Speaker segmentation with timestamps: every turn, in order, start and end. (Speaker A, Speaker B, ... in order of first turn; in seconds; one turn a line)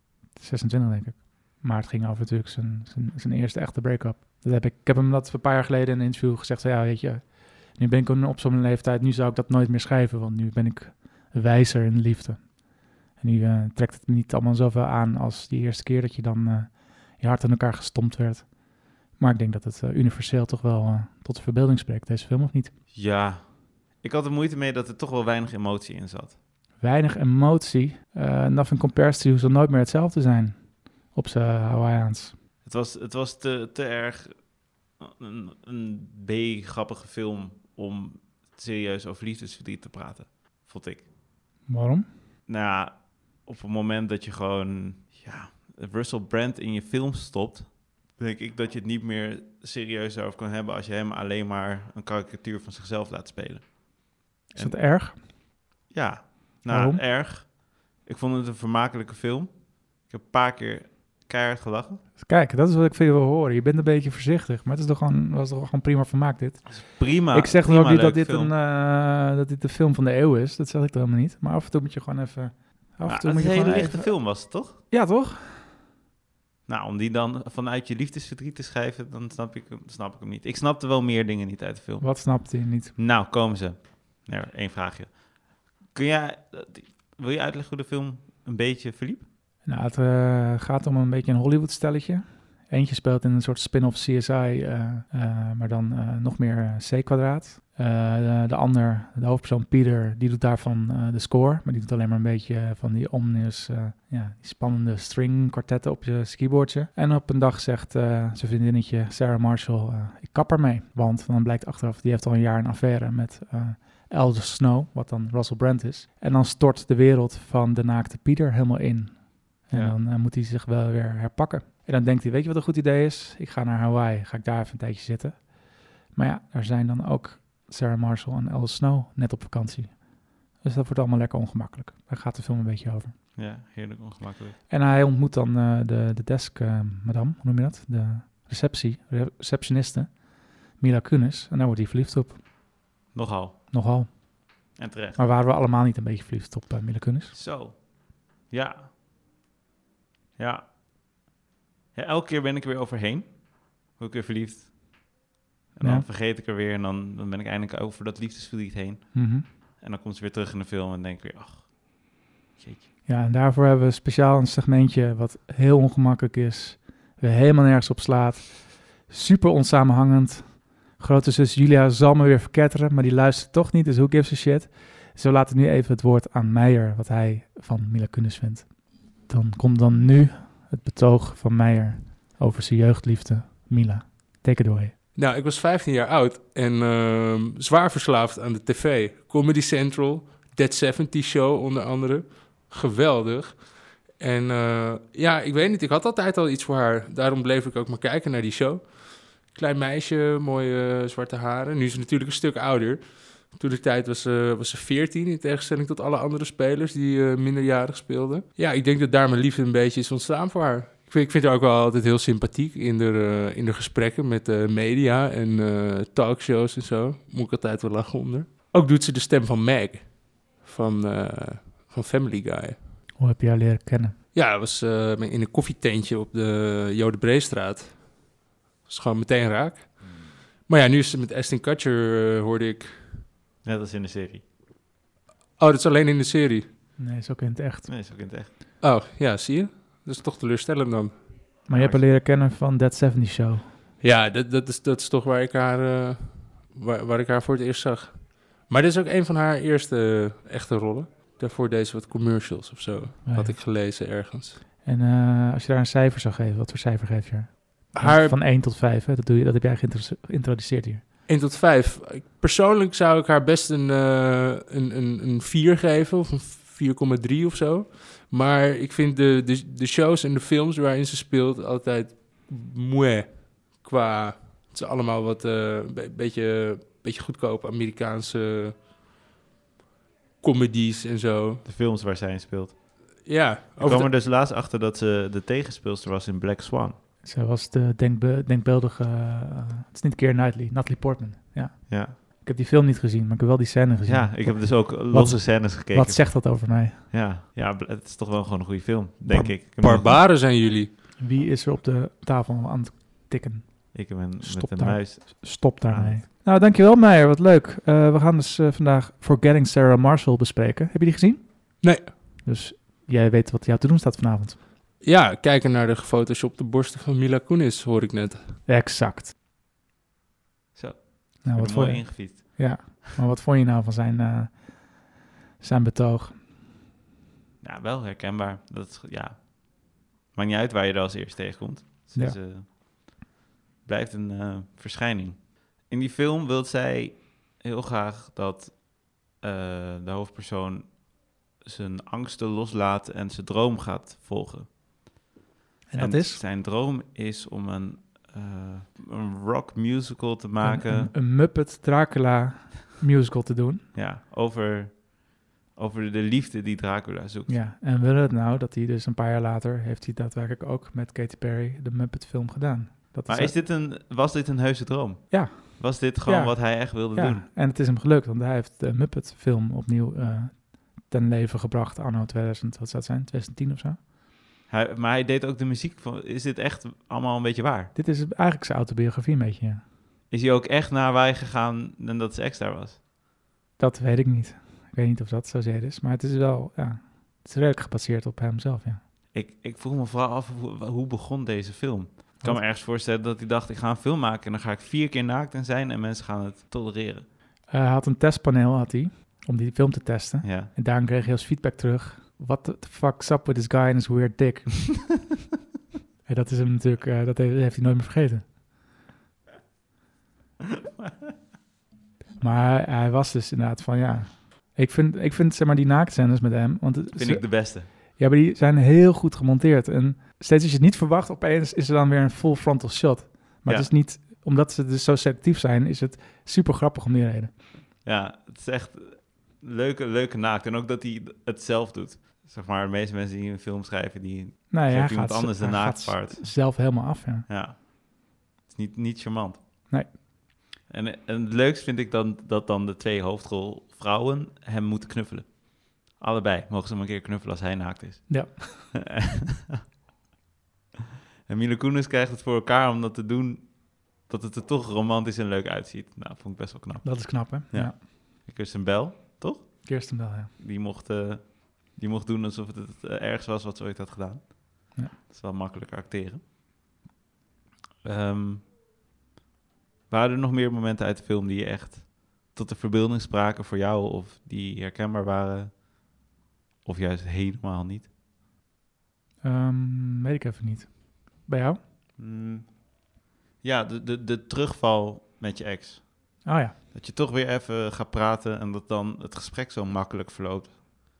Speaker A: 0.3-22.7
Speaker B: 22.9-26.4
Speaker A: 26.8-32.4
Speaker B: 32.6-41.1
Speaker A: 41.7-42.1
Speaker B: 42.5-55.3
Speaker A: 54.5-55.2
Speaker B: 55.9-62.0
Speaker A: 56.7-57.0
Speaker A: 62.2-75.7
Speaker B: 66.7-68.5
Speaker B: 73.0-74.8
Speaker B: 76.7-89.3
Speaker A: 82.0-83.0
Speaker A: 89.6-133.3
Speaker B: 119.7-120.0
Speaker B: 133.3-134.6
Speaker A: 134.7-142.4
Speaker B: 143.1-143.6
Speaker A: 143.7-147.3
Speaker B: 144.7-145.2
Speaker B: 147.3-148.9
Speaker B: 150.4-150.7
Speaker B: 151.9-154.7
Speaker B: 155.7-162.9
Speaker A: 155.8-156.1
Speaker A: 159.1-159.4
Speaker A: 163.0-184.9
Speaker C: 185.1-223.0
Speaker A: 223.2-224.2
Speaker C: 224.3-233.2
Speaker B: 233.6-234.4
Speaker C: 235.6-236.7
Speaker A: 237.0-237.9
Speaker B: 237.9-238.5
Speaker C: 238.8-241.6
Speaker A: 241.7-243.7
Speaker B: 241.7-242.1
Speaker C: 244.0-254.6
Speaker A: 253.2-253.6
Speaker A: 254.8-261.0
Speaker C: 257.9-258.4
Speaker C: 261.3-278.9
Speaker C: 280.4-281.6
Speaker B: 281.6-283.1
Speaker C: 283.2-284.1
Speaker B: 283.8-286.9
Speaker A: 287.2-297.1
Speaker B: 291.9-292.2
Speaker B: 294.0-300.1
Speaker A: 299.3-299.5
Speaker C: 299.8-300.9
Speaker A: 301.2-314.6
Speaker B: 303.9-306.2
Speaker C: 311.8-312.1
Speaker C: 315.0-318.6
Speaker A: 318.6-319.3
Speaker B: 320.7-322.9
Speaker A: 321.4-326.4
Speaker B: 327.6-333.3
Speaker B: 333.8-344.7
Speaker A: 345.9-346.4
Speaker B: 345.9-351.1
Speaker A: 350.6-353.9
Speaker B: 353.9-357.6
Speaker A: 357.5-363.6
Speaker B: 363.3-367.4
Speaker A: 365.3-374.0
Speaker B: 374.7-377.9
Speaker A: 377.9-379.8
Speaker B: 380.3-383.0
Speaker A: 383.8-389.0
Speaker B: 389.3-397.2
Speaker A: 397.7-405.2
Speaker B: 400.4-400.7
Speaker A: 406.2-408.5
Speaker A: 412.4-427.5
Speaker B: 417.1-417.9
Speaker B: 423.6-423.9
Speaker B: 428.0-436.8
Speaker A: 434.7-437.5
Speaker B: 437.5-439.6
Speaker B: 440.9-449.8
Speaker A: 448.3-448.9
Speaker B: 451.4-466.4
Speaker A: 457.0-458.0
Speaker A: 459.8-460.5
Speaker B: 468.0-468.7
Speaker B: 470.1-475.8
Speaker B: 476.8-478.1
Speaker A: 479.4-481.8
Speaker B: 482.2-490.8
Speaker A: 486.4-486.8